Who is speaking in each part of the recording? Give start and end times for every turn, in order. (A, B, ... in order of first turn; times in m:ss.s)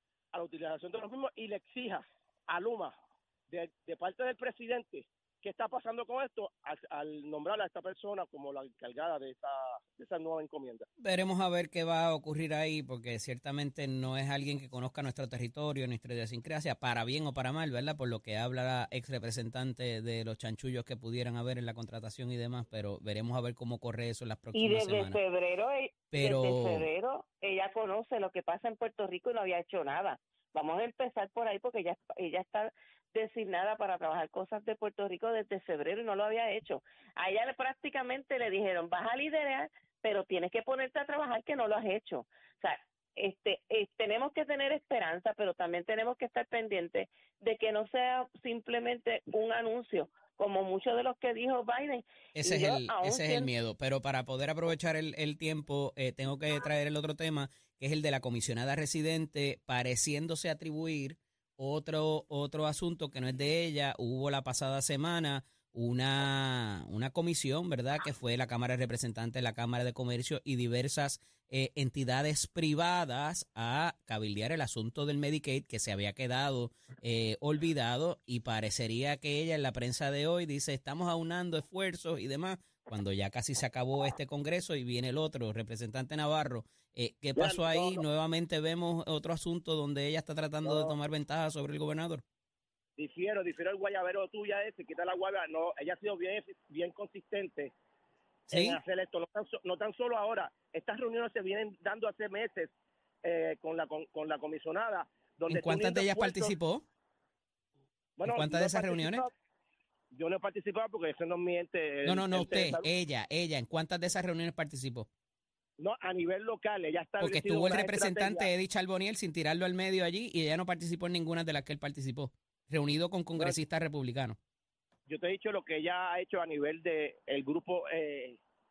0:00.3-0:03.0 A
0:03.5-0:10.9 A
0:11.0-0:25.2 B
0:24.5-0:53.5 C
0:26.1-0:26.8 B
0:52.3-1:32.2 B
1:27.4-1:28.0 A
1:30.6-1:31.0 A
1:33.0-1:37.7 A
1:38.5-1:42.7 A
1:38.5-1:38.8 B
1:43.2-1:46.5 A
1:45.5-1:46.8 B
1:48.2-1:49.3 A
1:48.2-1:49.2 B
1:50.1-1:52.9 A
1:52.0-1:55.1 B
1:55.8-1:58.5 A
1:57.2-2:04.4 B
2:05.1-2:08.4 A